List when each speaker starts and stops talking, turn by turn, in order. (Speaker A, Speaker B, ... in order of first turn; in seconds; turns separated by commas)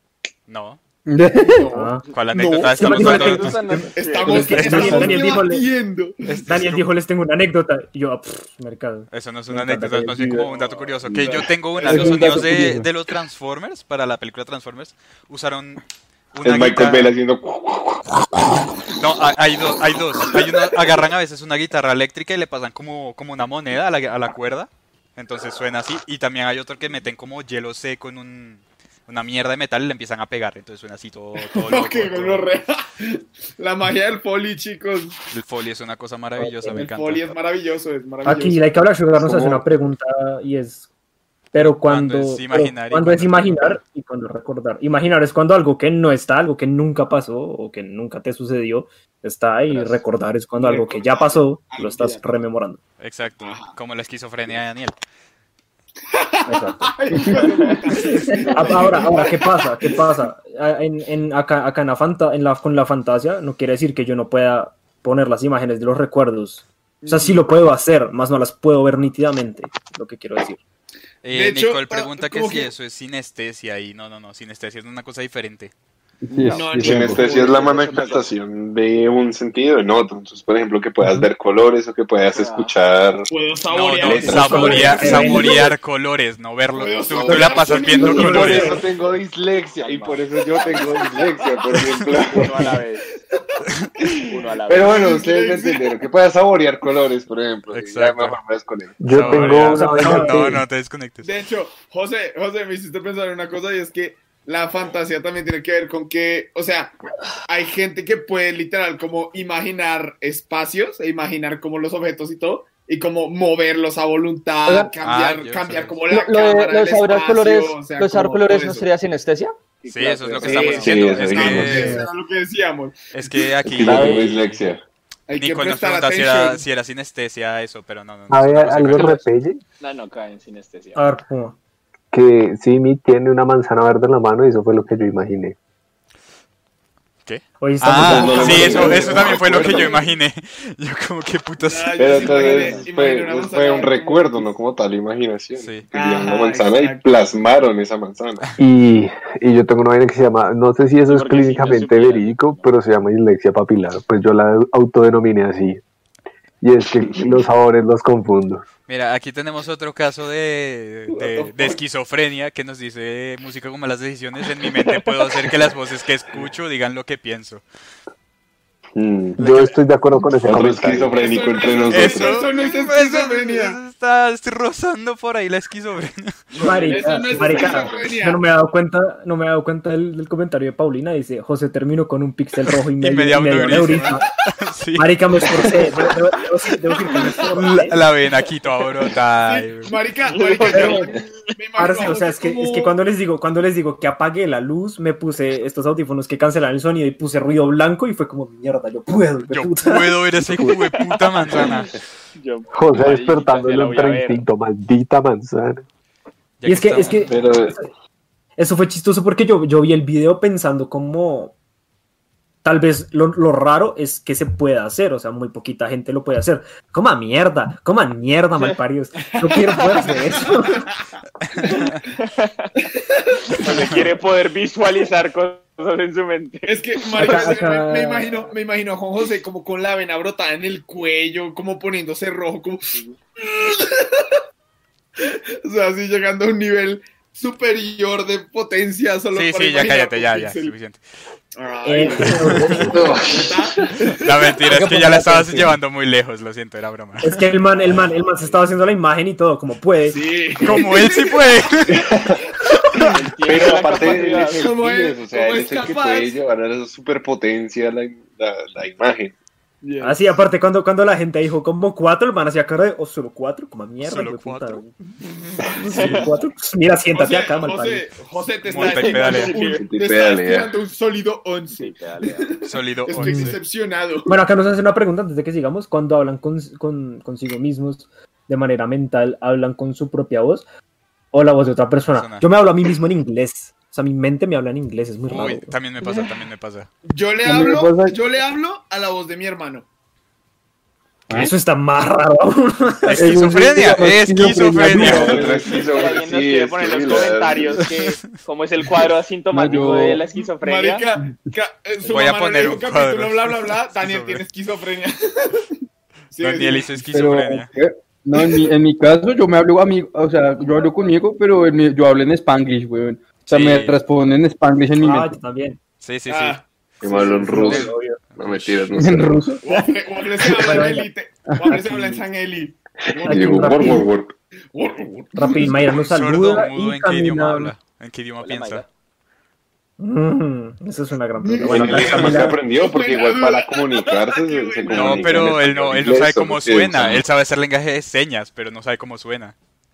Speaker A: 0.5-0.8, Speaker B: 1.1-1.7, Speaker C: 1.5-3.4, Speaker D: 1.7-2.0, Speaker A: 2.1-3.6, Speaker D: 2.8-5.7, Speaker E: 2.8-4.9, Speaker C: 3.9-6.4, Speaker B: 4.4-5.2, Speaker A: 4.5-5.2, Speaker A: 6.3-6.8, Speaker D: 6.5-10.4, Speaker A: 9.1-15.8, Speaker B: 10.1-10.4, Speaker E: 10.6-10.8, Speaker C: 11.1-12.5, Speaker B: 11.8-12.9, Speaker A: 16.3-17.1, Speaker F: 16.4-18.5, Speaker A: 19.0-32.4, Speaker C: 31.4-35.2, Speaker A: 35.3-37.3, Speaker D: 36.4-36.9, Speaker C: 36.8-38.7, Speaker D: 38.2-40.9, Speaker F: 39.2-39.6, Speaker D: 41.5-52.8, Speaker A: 41.5-43.8, Speaker C: 50.6-52.4, Speaker A: 53.0-55.0, Speaker C: 53.4-53.8, Speaker C: 56.1-60.2, Speaker D: 56.5-56.9, Speaker D: 58.4-70.6, Speaker C: 67.0-67.4, Speaker A: 71.2-75.7, Speaker C: 71.3-72.7, Speaker B: 76.2-77.2, Speaker C: 76.4-78.0, Speaker F: 76.7-83.3, Speaker E: 77.1-78.3, Speaker E: 82.3-82.7, Speaker C: 83.3-85.7, Speaker A: 83.7-88.8, Speaker F: 84.0-85.4, Speaker D: 84.3-85.6, Speaker C: 86.7-88.8, Speaker F: 87.3-92.7, Speaker D: 88.1-88.7, Speaker E: 89.8-91.2, Speaker E: 92.2-93.0, Speaker C: 93.1-95.9, Speaker E: 94.3-95.0, Speaker F: 94.7-99.6, Speaker A: 97.7-98.4, Speaker G: 99.0-100.6, Speaker A: 99.1-101.3, Speaker D: 99.7-100.6, Speaker C: 101.2-107.0, Speaker C: 107.5-118.9, Speaker H: 114.7-114.9, Speaker A: 115.0-116.0, Speaker H: 116.1-119.6, Speaker E: 119.8-121.3, Speaker A: 119.9-122.0, Speaker C: 120.4-124.0, Speaker F: 120.7-122.0, Speaker D: 121.8-122.0, Speaker A: 123.1-124.6, Speaker F: 123.6-124.8, Speaker C: 125.3-126.6, Speaker A: 125.4-129.2, Speaker G: 128.3-129.6, Speaker E: 129.8-131.0, Speaker D: 130.9-131.6, Speaker G: 132.1-135.6, Speaker A: 137.3-142.6, Speaker D: 137.6-139.3, Speaker F: 138.0-140.0, Speaker C: 141.6-144.5, Speaker F: 142.0-148.4, Speaker E: 142.3-142.9, Speaker A: 145.6-145.8, Speaker C: 145.9-147.0, Speaker G: 148.6-155.8, Speaker E: 151.1-152.7, Speaker G: 156.6-158.6, Speaker A: 158.9-167.6, Speaker C: 161.1-161.8, Speaker F: 169.0-169.4, Speaker G: 169.4-171.1, Speaker A: 169.4-169.8, Speaker F: 170.4-172.5, Speaker C: 171.1-173.8, Speaker A: 171.9-176.5, Speaker C: 176.5-178.4, Speaker D: 176.6-184.2, Speaker E: 176.7-177.9, Speaker A: 182.7-186.2, Speaker D: 185.0-188.0, Speaker A: 187.5-189.9, Speaker C: 189.4-193.0, Speaker E: 190.3-191.3, Speaker D: 190.7-191.1, Speaker D: 191.8-200.2, Speaker A: 199.5-202.0, Speaker E: 202.4-204.4, Speaker G: 202.7-205.8, Speaker A: 206.6-207.4, Speaker D: 206.7-207.9, Speaker F: 207.3-207.8, Speaker D: 208.6-211.6, Speaker D: 212.6-220.9, Speaker C: 219.2-220.9, Speaker A: 221.6-221.8, Speaker C: 221.6-222.0, Speaker E: 222.4-222.7, Speaker C: 222.8-224.0, Speaker E: 223.6-227.6, Speaker C: 226.7-234.4, Speaker D: 227.2-228.5, Speaker E: 232.9-233.2, Speaker C: 235.2-240.7, Speaker A: 239.3-241.0, Speaker C: 241.6-244.7, Speaker D: 241.8-243.0, Speaker A: 242.4-242.9, Speaker G: 242.8-243.2, Speaker F: 243.0-243.4, Speaker A: 244.2-247.4, Speaker H: 244.8-245.5, Speaker D: 247.2-250.2, Speaker E: 247.7-248.6, Speaker C: 250.1-251.4, Speaker A: 250.6-252.0, Speaker F: 251.9-252.4, Speaker C: 252.6-253.2, Speaker E: 253.1-254.6, Speaker F: 253.4-259.4, Speaker C: 253.9-256.4, Speaker C: 259.8-260.4, Speaker D: 260.0-264.9, Speaker A: 264.0-264.8, Speaker C: 265.3-265.5, Speaker D: 265.6-268.1, Speaker E: 265.9-266.3, Speaker C: 267.1-274.4, Speaker A: 268.6-269.6, Speaker E: 268.8-269.9, Speaker F: 269.8-270.8, Speaker E: 271.8-272.5, Speaker A: 272.6-273.6, Speaker D: 273.2-273.6, Speaker D: 274.3-280.6, Speaker D: 281.3-285.7, Speaker A: 282.1-282.5, Speaker A: 285.3-286.9, Speaker C: 287.1-289.9, Speaker B: 287.4-288.1, Speaker D: 291.3-293.3, Speaker A: 293.1-295.5, Speaker B: 293.1-295.7, Speaker F: 294.9-297.8, Speaker E: 295.4-301.0, Speaker B: 299.5-300.2, Speaker C: 300.6-305.7, Speaker A: 302.1-304.4, Speaker C: 306.3-306.9, Speaker A: 306.4-307.7, Speaker B: 307.1-315.4, Speaker A: 313.5-314.0, Speaker D: 315.0-315.8, Speaker A: 316.0-316.6, Speaker C: 316.3-317.9, Speaker F: 317.0-319.4, Speaker D: 317.1-318.2, Speaker A: 317.2-318.9, Speaker B: 319.0-319.8, Speaker C: 319.6-324.1, Speaker D: 320.6-321.1, Speaker B: 321.5-322.0, Speaker F: 323.1-324.4, Speaker D: 323.2-324.1, Speaker C: 324.7-326.0, Speaker D: 325.4-327.7, Speaker A: 325.8-328.9, Speaker E: 328.4-328.9, Speaker D: 330.0-332.6, Speaker C: 331.4-335.5, Speaker F: 331.7-337.2, Speaker A: 334.9-339.6